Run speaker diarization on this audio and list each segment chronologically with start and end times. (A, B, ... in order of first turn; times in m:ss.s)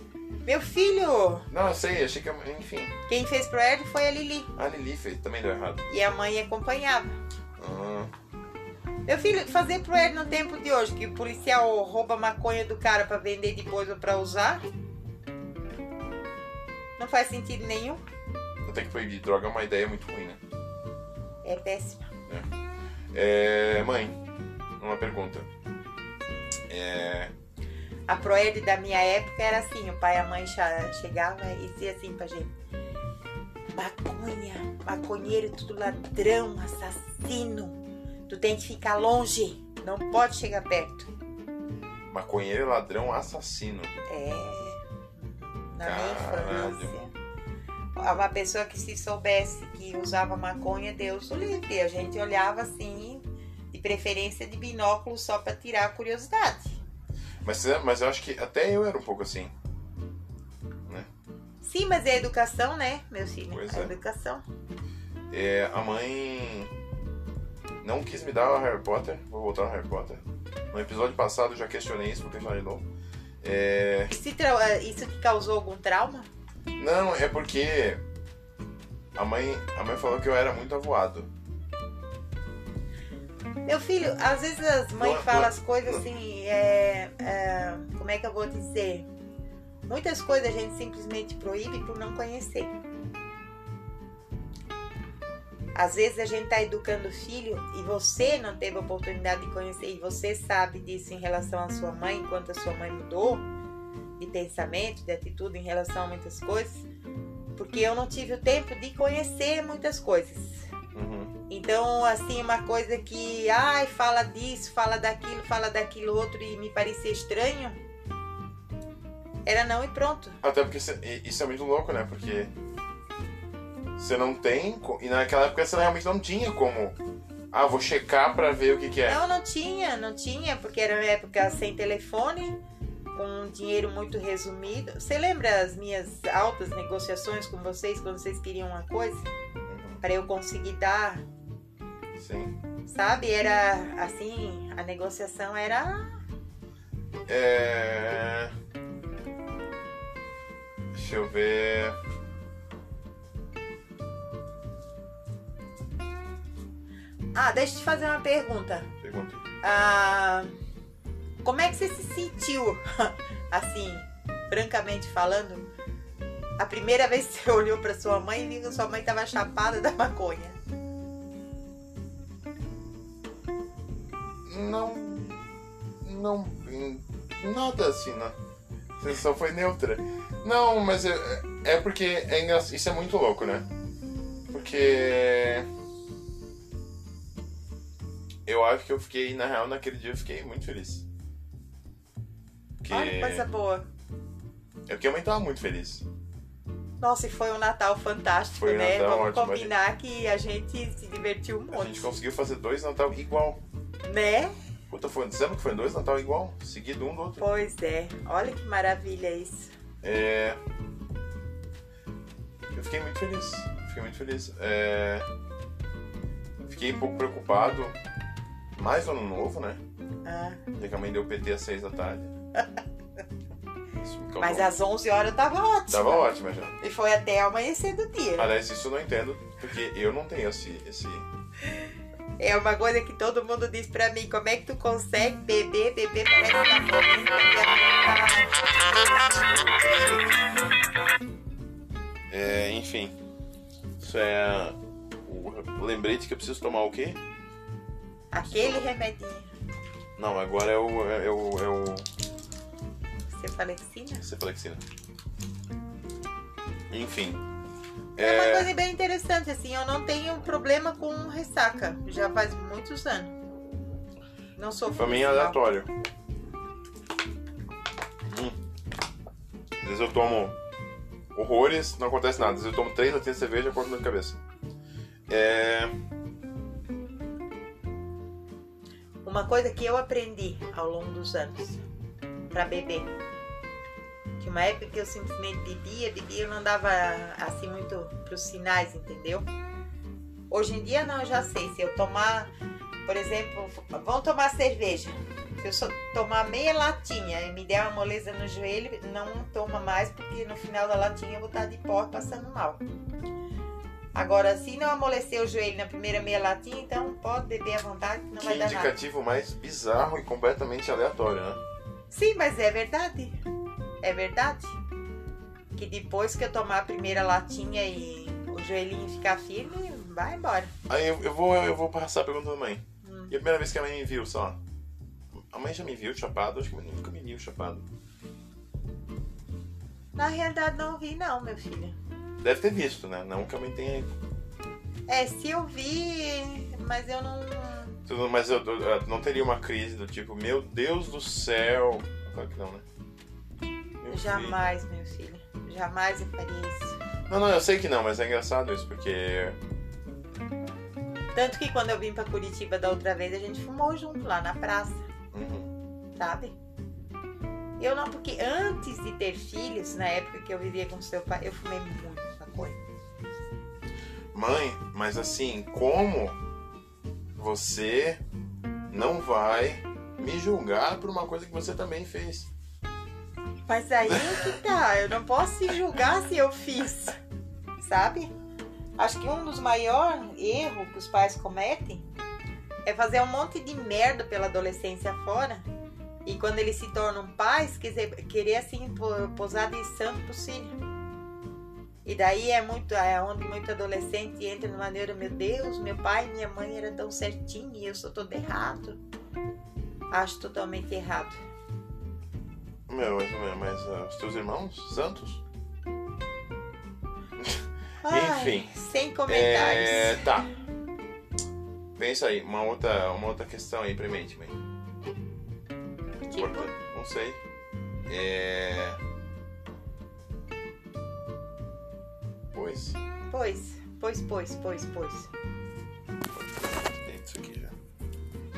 0:00.4-0:01.5 A
0:01.5-0:02.9 B
0:03.1-0:04.5 A
0:04.6-0:05.8 B
0:05.9-0:07.2 A
0:07.6-0:08.1 B
0:09.0-0:14.6 A
0:17.0-0:18.0 A
0:18.6-0:20.4 B
0:21.4-0:22.1 A
0:23.1-0:24.2 B
0:24.8-0:25.5 B
0:26.7-0:27.3 B
0:28.1-0:32.5 A
0:33.7-0:41.1 A
0:42.1-0:43.9 B
0:44.1-0:47.1 A
0:45.8-0:46.9 B
0:48.0-0:56.8 A
0:57.4-0:59.5 B
1:01.6-1:04.4 A
1:03.5-1:03.9 B
1:05.3-1:06.7 B
1:07.8-1:12.9 B
1:13.4-1:14.1 B
1:14.1-1:16.3 A
1:16.8-1:18.0 B
1:19.1-1:21.3 B
1:23.6-1:29.0 A
1:25.0-1:26.0 B
1:29.9-1:32.7 A
1:35.7-1:43.4 A
1:44.2-1:46.8 A
1:47.6-1:50.7 A
1:50.9-1:51.3 B
1:51.5-1:57.8 A
1:59.4-2:00.4 A
2:00.4-2:02.5 B
2:04.0-2:07.0 B
2:07.5-2:09.2 B
2:09.0-2:12.6 A
2:13.1-2:19.3 A
2:19.7-2:20.0 B
2:20.0-2:21.2 A
2:22.2-2:22.5 B
2:22.8-2:26.2 A
2:27.3-2:28.5 B
2:30.9-2:32.0 B
2:37.3-2:38.9 A
2:39.0-2:39.4 B
2:39.6-2:40.5 A
2:41.4-2:45.7 A
2:46.6-2:50.6 A
2:54.4-2:55.4 B
2:56.0-2:58.4 B
2:59.0-3:03.7 B
3:04.5-3:05.7 B
3:08.4-3:11.0 B
3:12.8-3:13.4 B
3:12.9-3:13.9 A
3:14.9-3:16.0 B
3:17.0-3:22.1 A
3:18.6-3:19.7 B
3:21.7-3:23.6 B
3:24.0-3:24.5 A
3:24.9-3:27.4 B
3:27.4-3:29.7 A
3:30.0-3:30.6 B
3:32.7-3:35.2 B
3:36.6-3:38.0 B
3:38.7-3:39.8 B
3:40.2-3:40.6 A
3:40.8-3:42.3 B
3:44.0-3:44.7 B
3:44.4-3:48.5 A
3:45.9-3:46.7 B
3:48.4-3:51.2 B
3:52.4-3:58.6 A
3:59.8-4:00.1 B
4:02.3-4:03.2 B
4:04.0-4:07.2 B
4:08.3-4:09.5 A
4:08.4-4:08.8 B
4:10.2-4:12.0 B
4:13.3-4:14.2 A
4:14.2-4:14.8 B
4:16.9-4:17.4 B
4:18.2-4:18.7 B
4:18.2-4:23.3 A
4:24.6-4:25.6 A
4:25.0-4:25.9 B
4:28.3-4:28.6 B
4:29.8-4:30.6 B
4:31.3-4:34.4 B
4:35.3-4:35.9 B
4:39.2-4:41.8 A
4:42.5-4:43.1 A
4:44.4-4:49.4 A
4:50.5-4:52.5 A
4:53.0-5:02.8 A
5:04.1-5:08.9 A
5:08.4-5:11.6 B
5:12.1-5:13.4 A
5:14.0-5:14.8 A
5:15.8-5:20.7 A
5:20.9-5:24.6 B
5:23.0-5:23.3 A
5:25.4-5:27.8 B
5:30.2-5:32.0 A
5:32.4-5:34.1 B
5:35.1-5:38.0 A
5:38.1-5:42.8 B
5:44.0-5:44.6 B
5:44.1-5:47.0 A
5:47.3-5:49.6 B
5:51.3-5:55.1 A
5:55.3-5:55.7 B
5:56.2-5:56.5 A
5:57.8-6:02.8 A
6:04.3-6:06.4 B
6:07.4-6:08.2 B
6:08.9-6:12.5 B
6:13.7-6:17.2 A
6:14.1-6:14.4 B
6:17.8-6:18.3 A
6:19.0-6:22.0 A
6:22.8-6:25.7 A
6:26.2-6:30.8 A
6:32.0-6:39.0 A
6:40.1-6:41.4 A
6:42.9-6:45.4 B
6:47.4-6:48.7 B
6:48.0-6:50.3 A
6:49.3-6:50.5 B
6:52.0-6:54.6 B
6:56.3-6:56.7 A
6:56.3-6:57.4 B
6:58.1-6:59.0 B
7:02.5-7:03.0 B
7:03.3-7:05.3 A
7:06.3-7:07.7 B